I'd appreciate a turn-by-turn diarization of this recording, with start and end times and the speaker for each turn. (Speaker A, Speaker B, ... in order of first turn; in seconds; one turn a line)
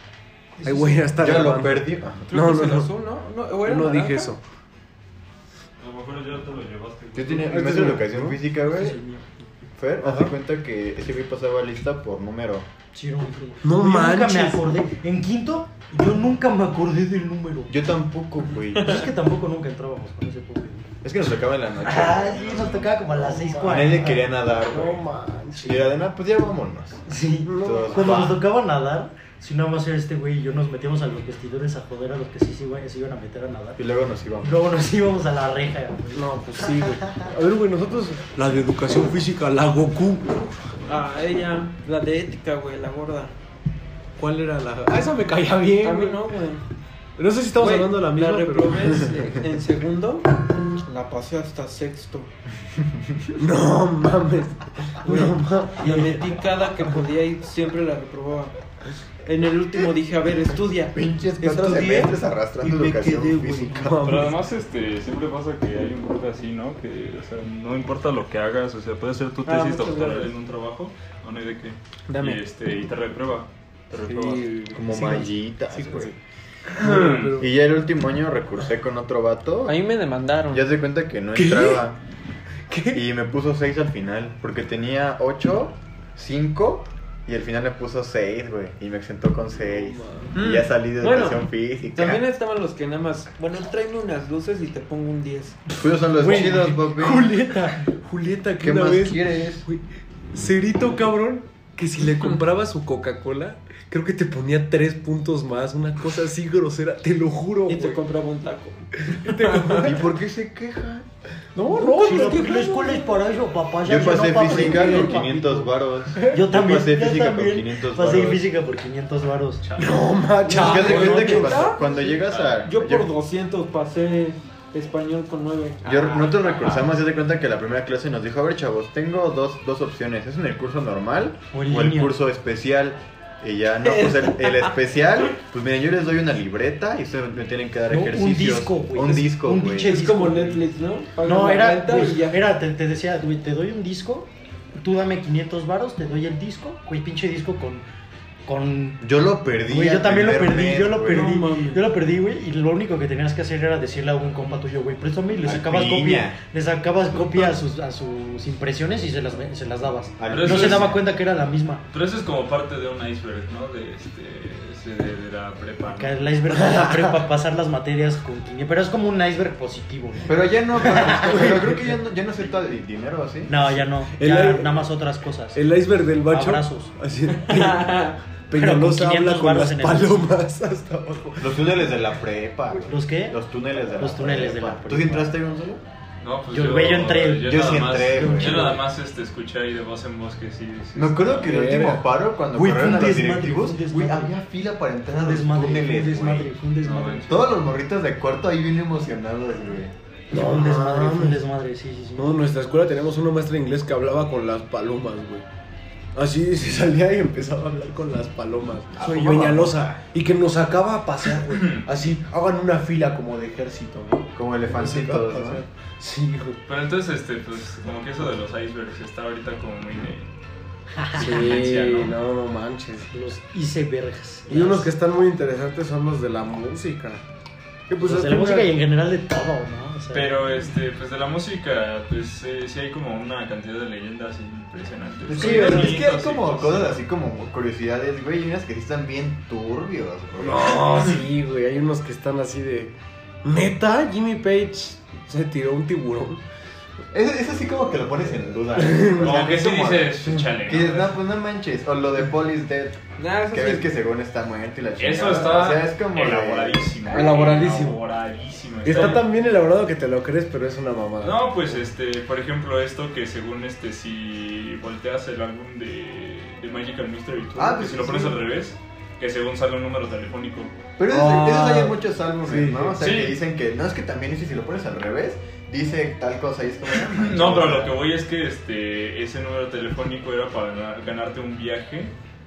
Speaker A: 0.6-1.4
Speaker B: 0.6-2.9
Speaker C: 1.2-2.3
Speaker D: 2.3-4.4
Speaker B: 3.6-4.4
Speaker E: 5.8-7.5
Speaker C: 7.2-9.0
Speaker B: 7.4-8.4
Speaker A: 8.7-9.3
Speaker C: 9.8-12.7
Speaker B: 10.0-10.3
Speaker A: 12.9-17.7
Speaker B: 13.6-14.7
Speaker C: 17.7-19.0
Speaker A: 18.8-20.9
Speaker C: 21.0-23.0
Speaker A: 21.8-24.2
Speaker B: 23.1-25.8
Speaker C: 23.6-25.0
Speaker C: 25.6-28.4
Speaker A: 27.1-33.8
Speaker B: 27.5-28.3
Speaker C: 33.8-34.5
Speaker A: 34.4-37.0
Speaker B: 36.1-40.7
Speaker D: 40.9-43.3
Speaker B: 44.2-46.2
Speaker D: 45.8-46.6
Speaker B: 47.2-49.3
Speaker D: 47.5-52.3
Speaker C: 52.9-53.4
Speaker B: 53.4-56.1
Speaker D: 55.1-58.5
Speaker D: 59.2-62.2
Speaker C: 60.9-64.1
Speaker A: 62.6-63.7
Speaker B: 63.7-64.4
Speaker E: 64.0-74.5
Speaker D: 69.4-70.3
Speaker D: 72.1-72.4
Speaker B: 74.0-76.2
Speaker C: 74.7-76.2
Speaker B: 76.7-77.5
Speaker E: 76.8-77.4
Speaker C: 77.4-79.8
Speaker D: 79.7-80.7
Speaker C: 80.5-82.0
Speaker B: 81.3-81.8
Speaker B: 82.7-83.0
Speaker C: 82.9-92.2
Speaker B: 89.7-90.3
Speaker D: 90.3-95.6
Speaker C: 95.8-97.3
Speaker B: 96.1-108.0
Speaker C: 98.6-99.2
Speaker D: 99.1-99.7
Speaker D: 107.7-109.8
Speaker B: 109.0-110.1
Speaker C: 109.6-111.1
Speaker B: 111.5-113.1
Speaker A: 111.7-119.6
Speaker D: 111.9-112.4
Speaker C: 113.8-118.5
Speaker B: 114.5-115.2
Speaker B: 116.2-116.4
Speaker E: 119.6-120.2
Speaker B: 119.8-121.7
Speaker D: 120.5-126.8
Speaker C: 120.5-123.1
Speaker A: 120.9-121.4
Speaker E: 122.1-122.6
Speaker C: 125.8-140.0
Speaker A: 131.5-132.2
Speaker D: 133.8-134.8
Speaker A: 137.9-140.7
Speaker D: 139.8-142.4
Speaker A: 141.2-147.8
Speaker A: 148.5-149.0
Speaker C: 149.0-151.4
Speaker A: 149.6-161.8
Speaker B: 151.1-151.8
Speaker C: 155.4-156.4
Speaker C: 160.2-161.0
Speaker E: 160.3-161.0
Speaker E: 161.9-166.2
Speaker A: 165.9-171.6
Speaker B: 166.5-167.2
Speaker C: 170.3-173.8
Speaker B: 171.0-171.7
Speaker A: 173.5-175.6
Speaker B: 174.2-174.9
Speaker B: 175.5-181.7
Speaker A: 176.3-176.9
Speaker D: 177.5-178.2
Speaker A: 178.5-180.4
Speaker C: 181.4-185.8
Speaker A: 182.9-183.4
Speaker A: 184.0-185.3
Speaker E: 186.2-191.4
Speaker A: 186.5-188.8
Speaker C: 187.4-188.8
Speaker C: 190.9-196.5
Speaker B: 191.4-192.1
Speaker A: 192.5-194.3
Speaker A: 195.1-197.5
Speaker E: 196.8-197.4
Speaker C: 197.3-199.9
Speaker A: 200.3-202.4
Speaker B: 200.3-201.4
Speaker B: 202.2-205.4
Speaker B: 206.2-216.6
Speaker C: 209.0-209.8
Speaker E: 211.4-211.9
Speaker C: 214.3-215.6
Speaker E: 216.7-220.3
Speaker E: 221.1-222.2
Speaker B: 221.2-223.2
Speaker A: 223.1-224.9
Speaker B: 224.5-227.2
Speaker B: 227.9-228.7
Speaker A: 228.0-230.5
Speaker E: 230.1-237.0
Speaker C: 235.3-241.2
Speaker A: 235.3-236.0
Speaker B: 240.4-246.4
Speaker C: 247.1-253.0
Speaker B: 248.7-249.4
Speaker E: 249.2-251.2
Speaker D: 253.2-253.9
Speaker C: 253.5-257.0
Speaker E: 255.0-259.3
Speaker B: 257.1-258.0
Speaker B: 258.8-261.8
Speaker E: 261.2-270.7
Speaker C: 267.6-268.4
Speaker C: 271.0-278.0
Speaker B: 271.1-273.0
Speaker E: 273.0-273.4
Speaker E: 276.9-282.1